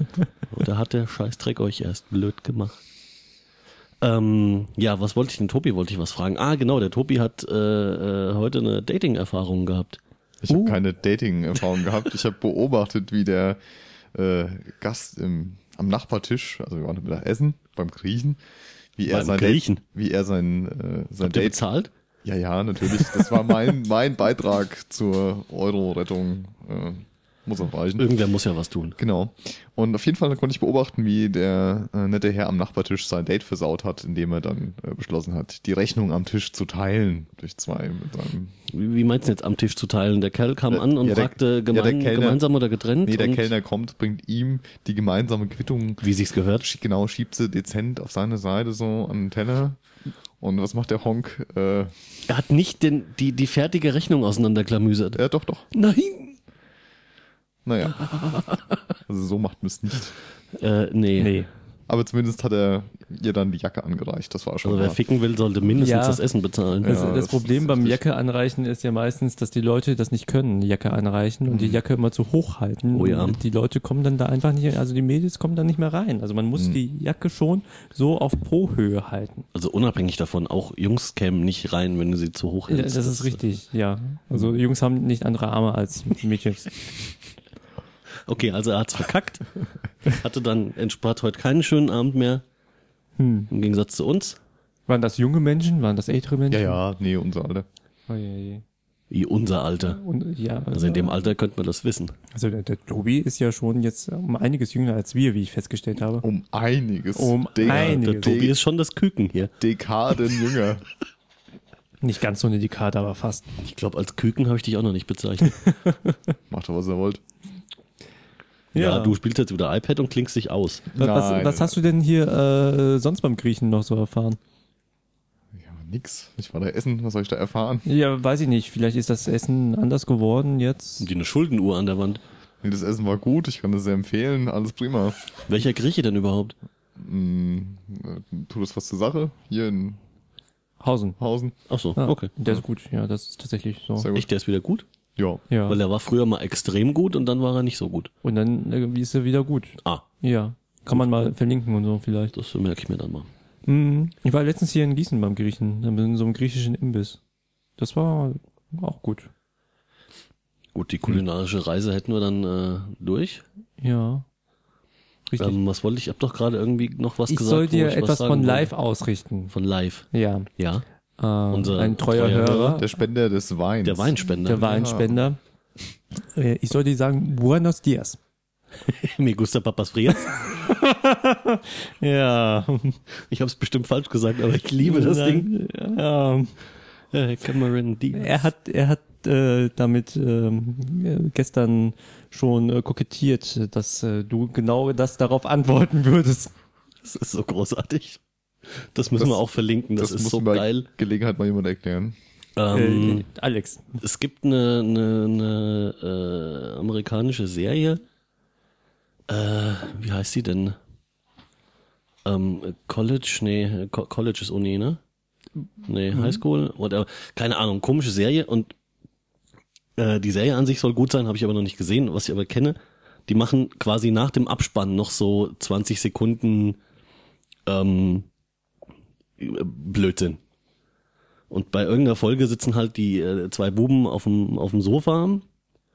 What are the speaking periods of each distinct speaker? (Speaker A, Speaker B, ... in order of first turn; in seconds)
Speaker A: 0.5-2.8, 4.0-10.0, 19.1-19.8, 21.2-21.9, 23.0-23.3, 28.0-29.0, 38.7-43.5, 46.0-46.6, 52.3-55.2, 55.7-56.4, 58.0-58.6, 60.5-61.3, 64.6-67.0, 73.0-73.4, 79.5-83.4, 88.2-92.4, 93.5-94.4, 99.1-100.0, 100.7-102.2, 107.6-109.5, 113.6-115.7, 118.7-120.9, 131.0-132.2, 135.4-136.5, 141.7-142.3, 144.1-144.8, 145.7-148.1, 152.3-153.3, 160.7-163.4, 165.4-168.7, 169.5-170.8, 171.5-172.8, 173.8-174.7, 178.9-180.6, 183.3-185.5, 187.1-188.4, 197.0-200.9, 202.6-203.3, 204.0-208.0, 209.3-210.8, 212.2-215.0, 215.8-218.7, 220.0-226.8, 227.7-228.3, 229.4-230.4, 231.5-235.4
Speaker B: 10.4-13.6, 14.1-18.4, 18.9-21.6, 22.2-28.1, 29.0-38.5, 40.7-42.4, 43.0-46.0, 46.6-49.8, 50.4-51.9, 55.1-55.6, 57.6-58.1, 59.1-60.1, 61.9-65.0, 66.8-68.0, 71.5-71.8, 96.5-97.7, 106.2-108.6, 109.6-110.8, 116.5-117.2, 120.9-121.8, 125.5-127.8, 132.6-135.2, 136.9-140.0, 141.2-141.5, 143.9-144.3, 145.2-145.4, 172.2-175.2, 200.0-202.2
Speaker C: 10.5-10.8, 61.2-61.5, 65.8-66.2, 66.8-79.5, 82.7-86.7, 93.2-93.5, 94.9-96.8, 98.1-98.6, 99.8-101.2, 102.3-106.2, 107.2-108.4, 112.0-113.5, 115.6-116.1, 118.7-119.2, 121.0-124.4, 127.8-131.1, 140.8-141.2, 142.0-144.1, 145.5-145.8, 148.2-152.3, 153.7-157.2, 157.8-159.3, 163.8-164.2, 165.3-165.6, 167.3-169.5, 170.1-170.5, 171.2-172.8, 174.4-175.4, 176.3-178.2, 180.2-183.0, 184.8-186.6, 188.1-196.5, 202.7-204.0, 216.1-216.4